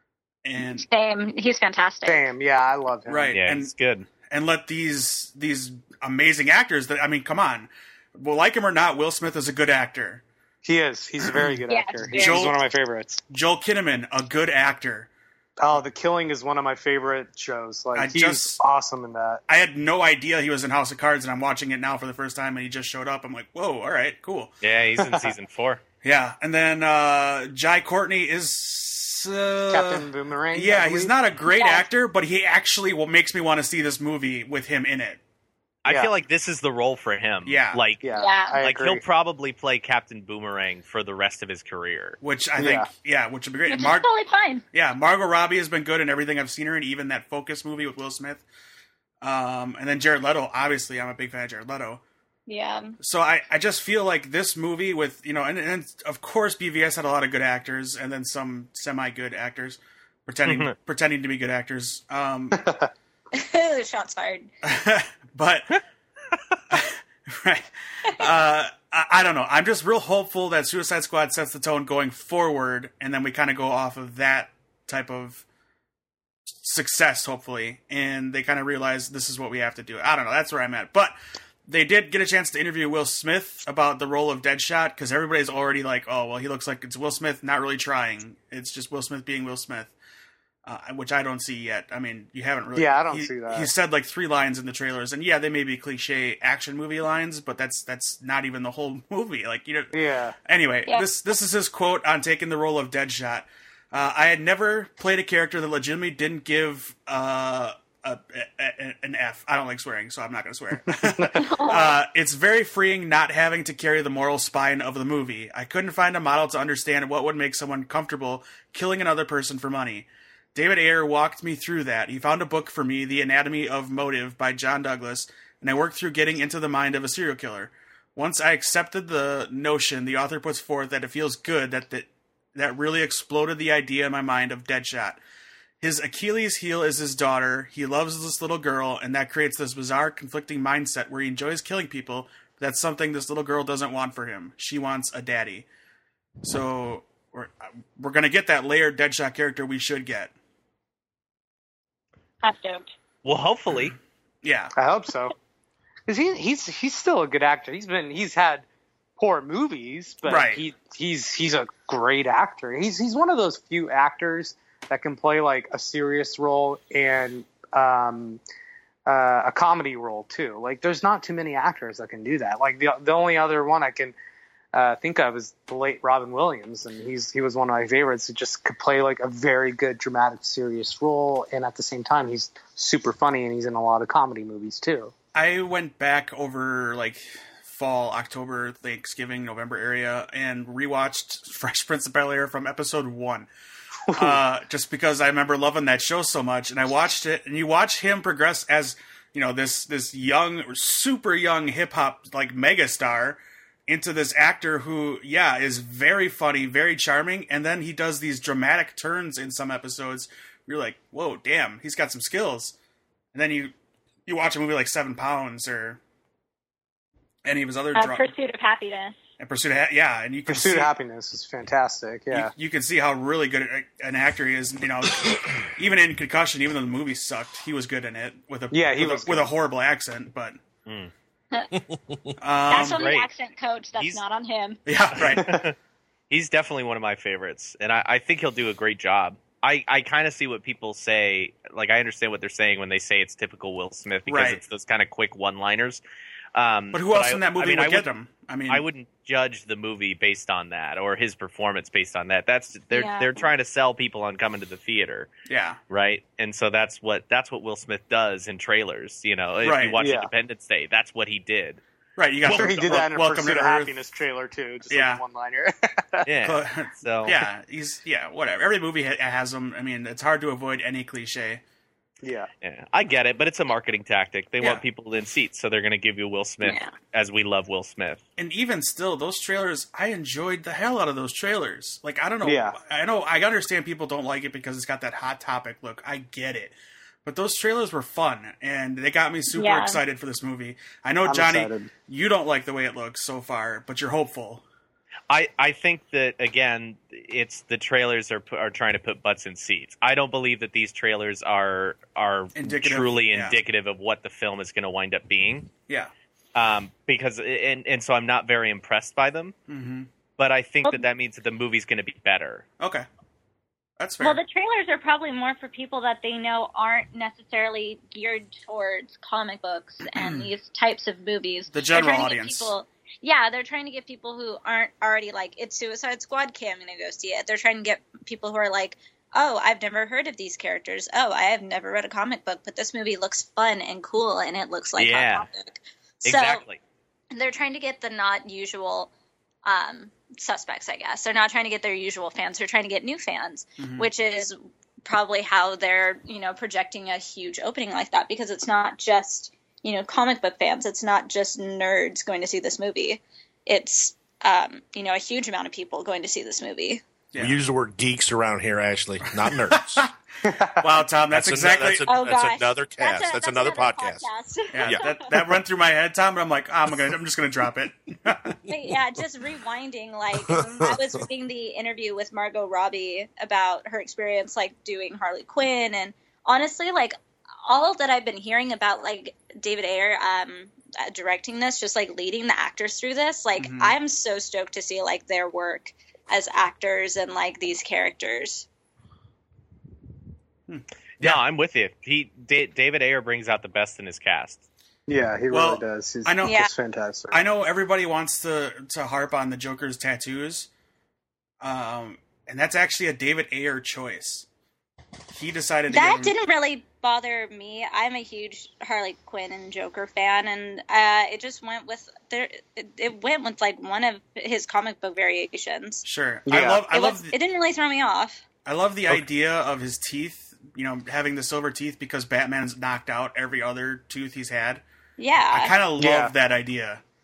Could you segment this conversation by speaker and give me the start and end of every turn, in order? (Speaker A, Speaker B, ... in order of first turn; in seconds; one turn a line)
Speaker A: 0.4-0.8
Speaker B: 0.6-2.2
Speaker C: 2.0-3.3
Speaker A: 3.1-10.2
Speaker D: 3.3-4.1
Speaker C: 10.6-13.2
Speaker A: 11.2-11.6
Speaker B: 11.7-12.5
Speaker A: 12.1-12.6
Speaker A: 13.3-15.1
Speaker C: 15.6-19.4
Speaker A: 17.9-18.6
Speaker A: 19.5-24.5
Speaker D: 24.6-25.8
Speaker C: 25.0-25.3
Speaker A: 26.0-35.2
Speaker C: 29.7-31.1
Speaker B: 31.4-31.9
Speaker D: 35.8-38.0
Speaker C: 35.9-36.1
Speaker A: 37.5-37.8
Speaker C: 38.0-39.0
Speaker B: 38.1-38.6
Speaker D: 38.6-42.2
Speaker A: 42.2-44.0
Speaker C: 42.6-42.9
Speaker B: 43.7-44.6
Speaker A: 44.7-48.4
Speaker A: 49.2-52.0
Speaker B: 52.5-52.9
Speaker A: 53.0-62.6
Speaker D: 60.5-60.7
Speaker C: 62.5-62.9
Speaker B: 63.3-64.5
Speaker A: 64.6-65.8
Speaker A: 66.7-75.4
Speaker A: 76.6-81.2
Speaker A: 81.7-89.9
Speaker A: 90.6-99.9
Speaker C: 92.8-93.7
Speaker C: 99.9-100.3
Speaker A: 100.5-135.2
Speaker C: 111.0-111.6
Speaker B: 111.3-112.0
Speaker A: 135.8-145.7
Speaker A: 146.4-150.3
Speaker B: 152.4-152.9
Speaker D: 153.2-153.9
Speaker A: 154.4-154.7
Speaker C: 154.8-155.3
Speaker C: 156.1-158.6
Speaker C: 159.2-168.4
Speaker A: 160.2-160.6
Speaker C: 169.1-174.1
Speaker C: 174.7-185.1
Speaker A: 185.3-193.5
Speaker C: 194.1-194.4
Speaker A: 194.1-212.7
Speaker A: 213.3-213.7
Speaker A: 214.2-216.0
Speaker A: 217.4-218.3
Speaker B: 217.9-219.2
Speaker A: 219.4-220.9
Speaker C: 220.5-222.5
Speaker A: 222.3-230.6
Speaker C: 228.7-229.5
Speaker D: 230.8-231.1
Speaker E: 231.8-232.3
Speaker A: 232.4-233.0
Speaker B: 232.7-234.8
Speaker D: 232.7-233.3
Speaker D: 234.0-234.2
Speaker A: 234.8-235.6
Speaker D: 235.1-235.7
Speaker C: 235.3-235.6
Speaker D: 236.3-246.0
Speaker A: 244.3-244.6
Speaker D: 246.5-248.1
Speaker A: 246.9-248.8
Speaker D: 248.7-255.3
Speaker B: 252.9-253.5
Speaker A: 255.5-255.8
Speaker D: 255.9-261.8
Speaker A: 259.6-260.0
Speaker C: 260.0-260.3
Speaker A: 262.2-263.9
Speaker C: 262.4-266.3
Speaker A: 264.9-265.2
Speaker D: 266.2-267.4
Speaker A: 266.4-271.6
Speaker C: 272.2-272.5
Speaker D: 272.6-278.2
Speaker B: 276.6-276.9
Speaker A: 278.4-294.6
Speaker C: 282.4-282.8
Speaker B: 289.5-290.0
Speaker C: 291.2-291.9
Speaker D: 295.3-305.7
Speaker A: 302.5-303.6
Speaker D: 306.5-309.5
Speaker A: 309.7-310.1
Speaker D: 310.4-312.6
Speaker A: 312.8-313.1
Speaker A: 314.0-314.4
Speaker B: 314.2-336.6
Speaker A: 320.1-320.5
Speaker A: 321.7-322.7
Speaker D: 335.0-335.5
Speaker D: 336.2-336.8
Speaker B: 337.3-339.1
Speaker B: 339.6-357.0
Speaker A: 343.8-344.1
Speaker A: 357.3-357.6
Speaker E: 357.4-360.1
Speaker A: 359.3-360.1
Speaker C: 360.4-360.8
Speaker A: 360.6-362.1
Speaker E: 361.3-364.3
Speaker B: 362.0-365.3
Speaker A: 364.7-368.6
Speaker B: 368.7-388.6
Speaker E: 370.4-371.0
Speaker A: 383.6-383.9
Speaker A: 390.7-391.4
Speaker D: 391.2-394.6
Speaker C: 395.1-397.4
Speaker A: 395.5-396.6
Speaker B: 396.4-396.7
Speaker A: 397.3-400.7
Speaker A: 401.6-404.4
Speaker A: 405.3-406.3
Speaker B: 405.9-416.0
Speaker A: 416.0-417.3
Speaker C: 416.5-416.8
Speaker B: 416.9-418.4
Speaker A: 418.6-424.8
Speaker B: 425.2-425.7
Speaker A: 425.5-427.0
Speaker C: 426.0-426.3